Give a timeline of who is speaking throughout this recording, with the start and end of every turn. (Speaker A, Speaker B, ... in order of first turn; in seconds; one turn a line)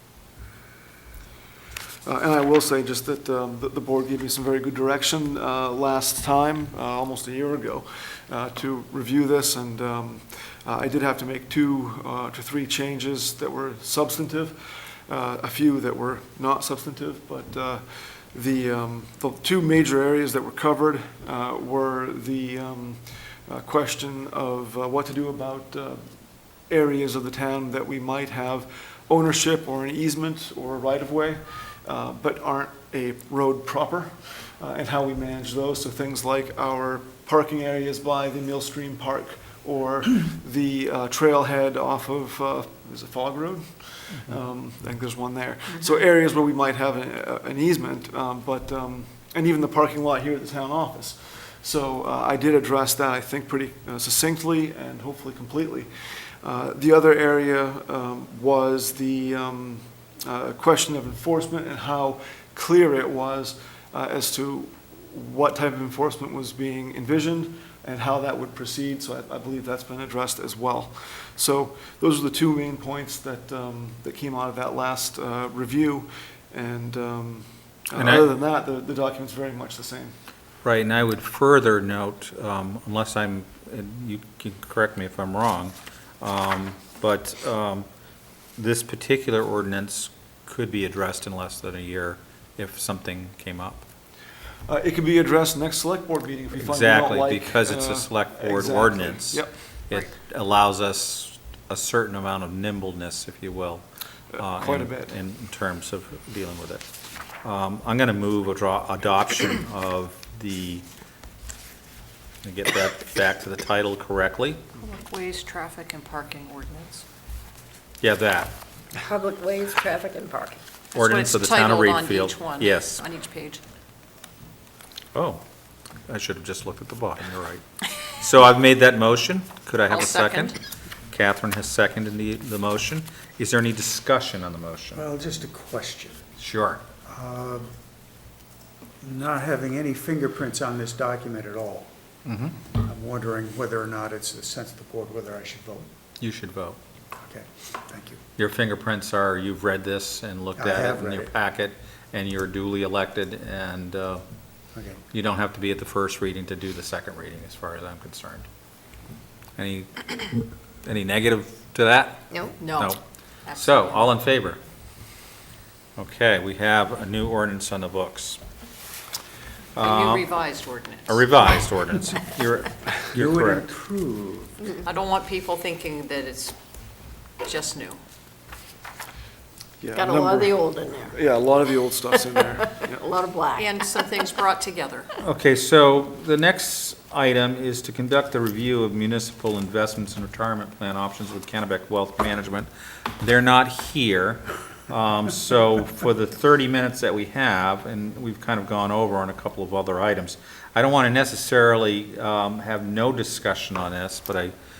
Speaker A: 2.0-80.1
Speaker B: 77.9-78.3
Speaker B: 80.6-87.8
Speaker B: 88.5-93.8
Speaker A: 94.7-99.7
Speaker B: 96.5-103.8
Speaker A: 104.3-105.1
Speaker B: 104.4-106.8
Speaker B: 107.4-110.8
Speaker B: 112.4-114.6
Speaker C: 114.8-117.0
Speaker B: 118.0-118.5
Speaker D: 119.0-120.6
Speaker B: 120.9-123.0
Speaker C: 120.9-123.6
Speaker B: 125.1-125.4
Speaker B: 126.1-130.6
Speaker C: 129.9-130.5
Speaker B: 131.1-135.0
Speaker E: 134.9-136.2
Speaker B: 136.4-136.8
Speaker E: 137.1-137.7
Speaker E: 139.0-141.9
Speaker B: 142.2-142.6
Speaker E: 142.8-145.9
Speaker B: 146.2-146.8
Speaker E: 147.2-148.2
Speaker B: 148.4-154.2
Speaker E: 150.6-151.3
Speaker E: 154.7-155.0
Speaker B: 155.1-158.5
Speaker B: 159.6-163.0
Speaker C: 162.6-164.1
Speaker B: 163.5-164.6
Speaker B: 166.0-168.4
Speaker B: 169.8-170.3
Speaker C: 169.8-171.4
Speaker B: 171.1-173.7
Speaker E: 173.1-174.6
Speaker C: 174.8-176.6
Speaker C: 177.4-178.0
Speaker A: 179.8-183.1
Speaker D: 179.9-181.2
Speaker D: 182.1-184.1
Speaker C: 183.5-185.1
Speaker B: 185.2-204.5